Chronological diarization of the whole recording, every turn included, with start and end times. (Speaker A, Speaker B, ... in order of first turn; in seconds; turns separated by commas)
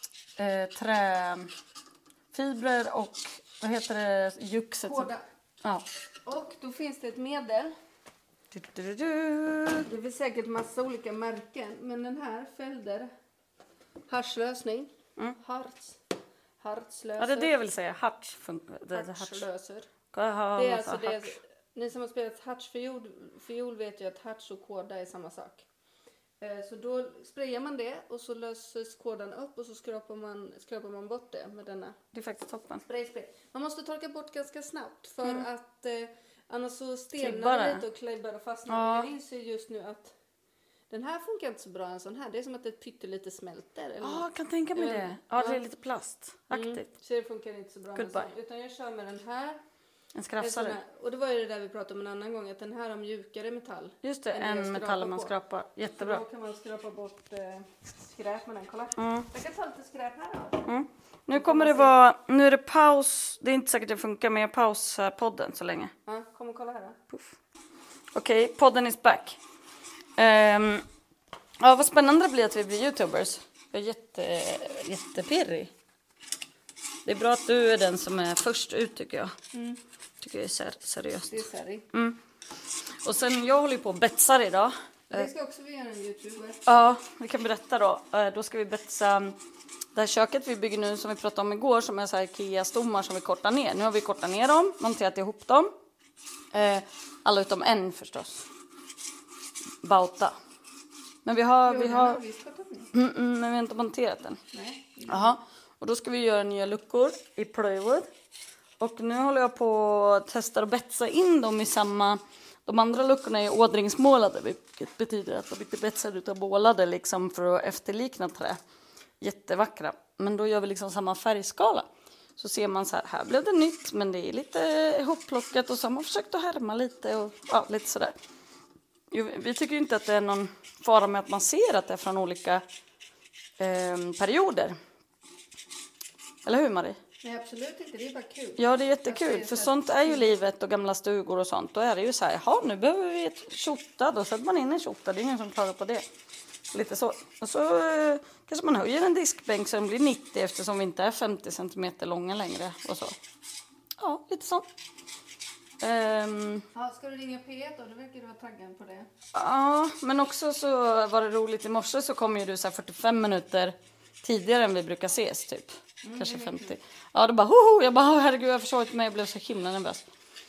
Speaker A: 0.4-1.5, Speaker A: 2.3-5.1, Speaker B: 4.8-5.2, Speaker B: 6.2-7.7, Speaker A: 8.5-9.9, Speaker B: 9.8-13.1, Speaker B: 14.1-16.0, Speaker B: 16.6-17.5, Speaker A: 17.2-19.4, Speaker B: 18.9-19.9, Speaker A: 20.1-21.4, Speaker B: 20.5-25.6, Speaker B: 26.4-32.0, Speaker A: 32.1-32.8, Speaker B: 32.9-40.1, Speaker A: 37.2-37.8, Speaker A: 38.7-39.1, Speaker B: 40.9-45.6, Speaker A: 44.0-46.9, Speaker B: 46.5-49.6, Speaker A: 48.0-48.3, Speaker A: 50.1-50.8, Speaker B: 50.4-55.3, Speaker A: 54.0-56.2, Speaker B: 56.0-60.7, Speaker A: 59.0-59.3, Speaker A: 60.6-65.9, Speaker B: 61.3-61.9, Speaker B: 66.0-67.0, Speaker A: 67.1-67.3, Speaker A: 68.1-69.4, Speaker A: 70.2-70.8, Speaker A: 71.6-75.7, Speaker A: 77.0-79.3, Speaker B: 79.5-79.8, Speaker A: 80.2-82.2, Speaker B: 81.3-81.8, Speaker A: 83.0-85.3, Speaker B: 85.1-86.6, Speaker A: 86.7-89.4, Speaker A: 89.9-95.7, Speaker A: 96.5-98.5, Speaker A: 99.8-100.3, Speaker A: 101.2-102.2, Speaker B: 101.7-102.9, Speaker A: 102.9-104.4, Speaker B: 104.5-105.3, Speaker A: 105.1-108.1, Speaker A: 108.8-118.6, Speaker A: 119.2-128.1, Speaker A: 129.1-132.6, Speaker A: 133.6-134.8, Speaker A: 136.4-137.0, Speaker B: 137.2-140.3, Speaker A: 138.6-146.0, Speaker A: 146.7-153.1, Speaker A: 154.0-154.7, Speaker A: 155.8-156.6, Speaker B: 156.7-159.1, Speaker A: 159.3-170.1, Speaker B: 166.0-166.8